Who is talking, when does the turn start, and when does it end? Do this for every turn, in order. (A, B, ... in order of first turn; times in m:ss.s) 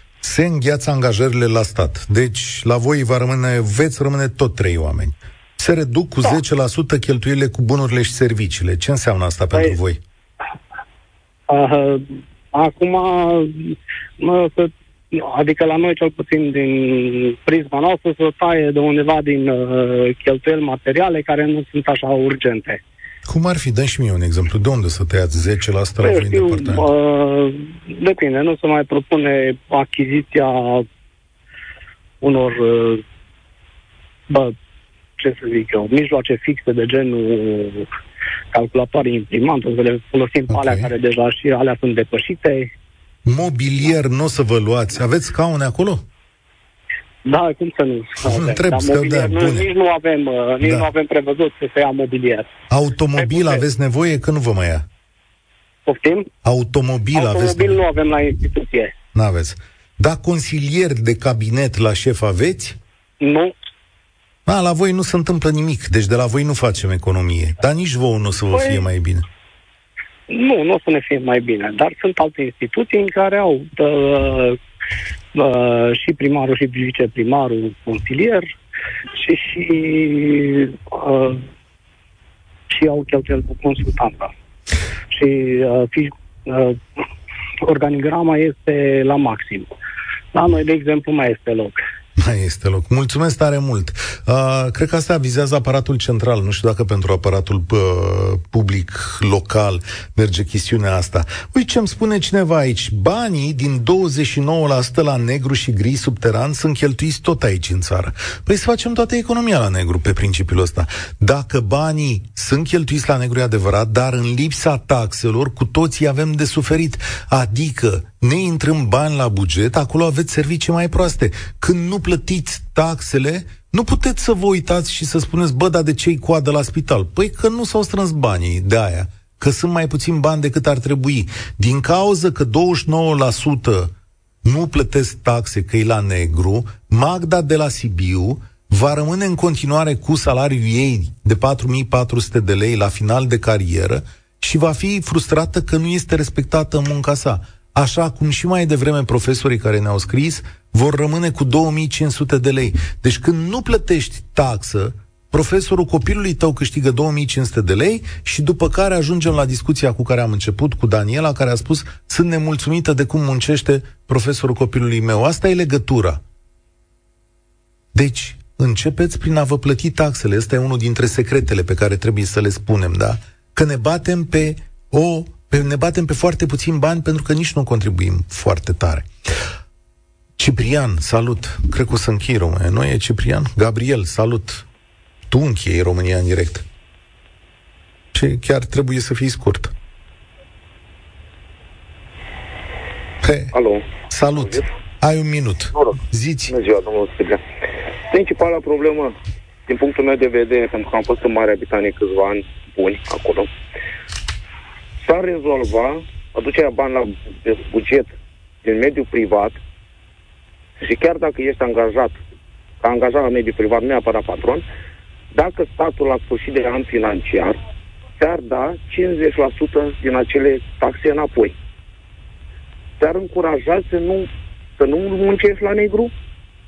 0:00.2-0:10.0 A
0:11.5-0:22.8 B
0:23.2-0:26.9 A
0:26.0-0:30.9 B
0:32.2-0:33.0 B
0:34.3-0:34.5 B
0:35.2-0:37.9 B
0:38.5-0:42.7 B
0:40.5-0:40.9 A
0:43.2-0:46.0 A
0:47.2-0:52.5 B
0:48.2-0:49.7 A
0:50.6-0:50.9 A
0:52.7-0:54.8 A
0:53.2-0:53.6 B
0:55.8-0:56.3 B
0:56.4-0:57.8 A
0:57.1-0:58.9 B
0:59.1-1:02.8 A
1:03.2-1:03.5 B
1:04.4-1:09.2 A
1:08.5-1:08.9 B
1:10.3-1:14.6 B
1:15.3-1:18.5 B
1:19.2-1:21.4 B
1:22.7-1:24.3 B
1:25.1-1:26.8 B
1:27.6-1:29.7 B
1:30.3-1:31.8 B
1:32.2-2:13.9 A
2:14.4-2:46.2 A
2:47.9-2:59.1 A
3:00.4-3:04.6 A
3:05.3-3:06.6 A
3:08.1-3:09.7 A
3:13.2-3:13.5 A
3:13.5-3:14.6 C
3:14.1-3:16.5 A
3:16.5-3:17.4 C
3:18.1-3:19.1 C
3:19.7-3:23.5 C
3:25.0-3:28.1 C
3:28.6-3:29.6 C
3:30.8-3:32.2 C
3:32.8-3:34.6 C
3:35.3-3:37.6 C
3:38.2-3:41.5 C
3:43.0-3:46.1 C